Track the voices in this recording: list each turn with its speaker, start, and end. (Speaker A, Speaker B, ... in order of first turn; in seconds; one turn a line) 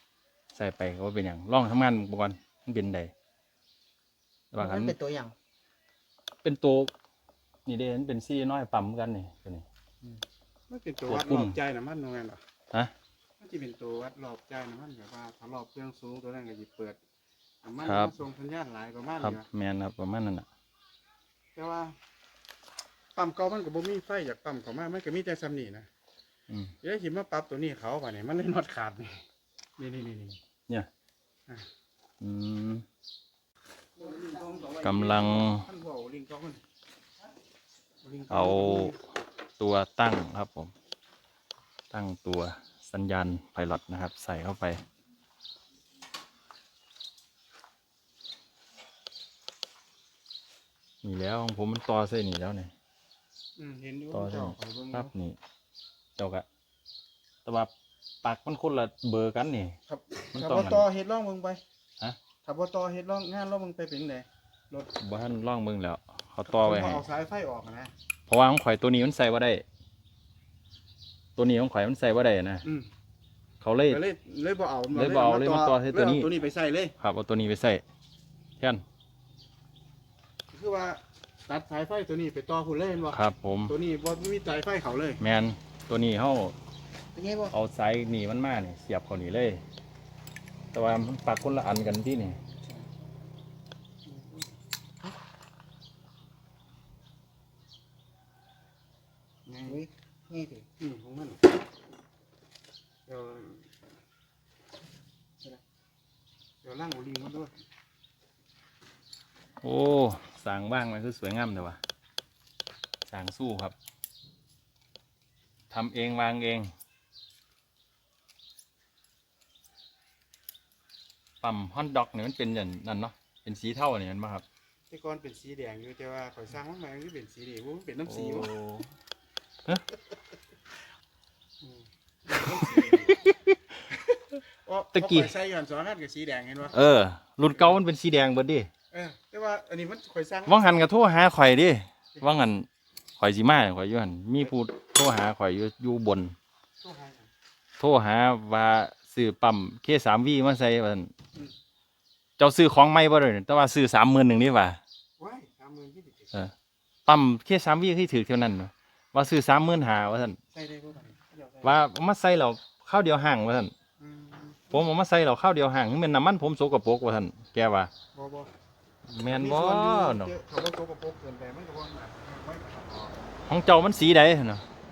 Speaker A: 0.5-3.1
Speaker A: 4.5-5.0
Speaker B: 4.6-5.3
Speaker A: 6.4-6.9
Speaker A: 7.7-9.7
Speaker C: 10.7-12.4
Speaker A: 11.1-11.6
Speaker C: 13.4-17.0
Speaker C: 17.6-19.5
Speaker A: 17.8-18.1
Speaker A: 19.2-20.5
Speaker C: 21.6-21.9
Speaker C: 23.2-25.9
Speaker A: 26.5-26.7
Speaker C: 26.8-29.2
Speaker C: 29.8-30.4
Speaker A: 32.2-32.9
Speaker C: 34.0-36.6
Speaker A: 34.8-35.7
Speaker C: 38.0-39.0
Speaker A: 38.3-39.0
Speaker A: 39.6-40.7
Speaker A: 41.9-44.8
Speaker A: 51.0-52.7
Speaker C: 53.6-55.1
Speaker A: 54.1-55.4
Speaker A: 56.2-56.5
Speaker A: 57.5-57.7
Speaker A: 58.2-59.8
Speaker C: 59.9-61.6
Speaker A: 60.3-60.9
Speaker C: 62.4-64.9
Speaker A: 65.0-67.0
Speaker C: 66.5-67.9
Speaker A: 68.3-69.7
Speaker A: 71.4-72.7
Speaker A: 73.6-74.0
Speaker C: 73.9-76.9
Speaker A: 74.9-76.3
Speaker A: 77.0-77.8
Speaker A: 78.6-78.8
Speaker C: 80.5-85.2
Speaker A: 83.1-83.8
Speaker A: 85.2-86.5
Speaker B: 87.2-87.5
Speaker A: 87.5-89.6
Speaker A: 90.7-92.4
Speaker C: 94.1-94.6
Speaker C: 99.5-99.8
Speaker B: 99.7-100.7
Speaker C: 100.8-101.4
Speaker C: 103.1-103.7
Speaker C: 106.6-107.5
Speaker A: 109.6-111.8
Speaker A: 113.1-113.7
Speaker A: 115.7-116.7
Speaker A: 121.4-124.4
Speaker C: 124.9-128.5
Speaker A: 128.1-128.9
Speaker C: 131.6-133.2
Speaker A: 133.1-133.5
Speaker C: 134.7-136.8
Speaker A: 134.9-135.3
Speaker A: 136.7-138.7
Speaker C: 138.9-140.7
Speaker A: 140.5-142.7
Speaker A: 143.2-146.3
Speaker C: 146.8-147.3
Speaker A: 147.8-151.1
Speaker A: 152.4-154.8
Speaker C: 155.2-156.5
Speaker A: 157.1-160.4
Speaker C: 160.5-161.8
Speaker A: 161.6-163.7
Speaker C: 164.0-164.8
Speaker A: 164.7-167.9
Speaker C: 168.1-168.5
Speaker A: 169.1-170.3
Speaker C: 169.3-173.1
Speaker A: 173.5-174.6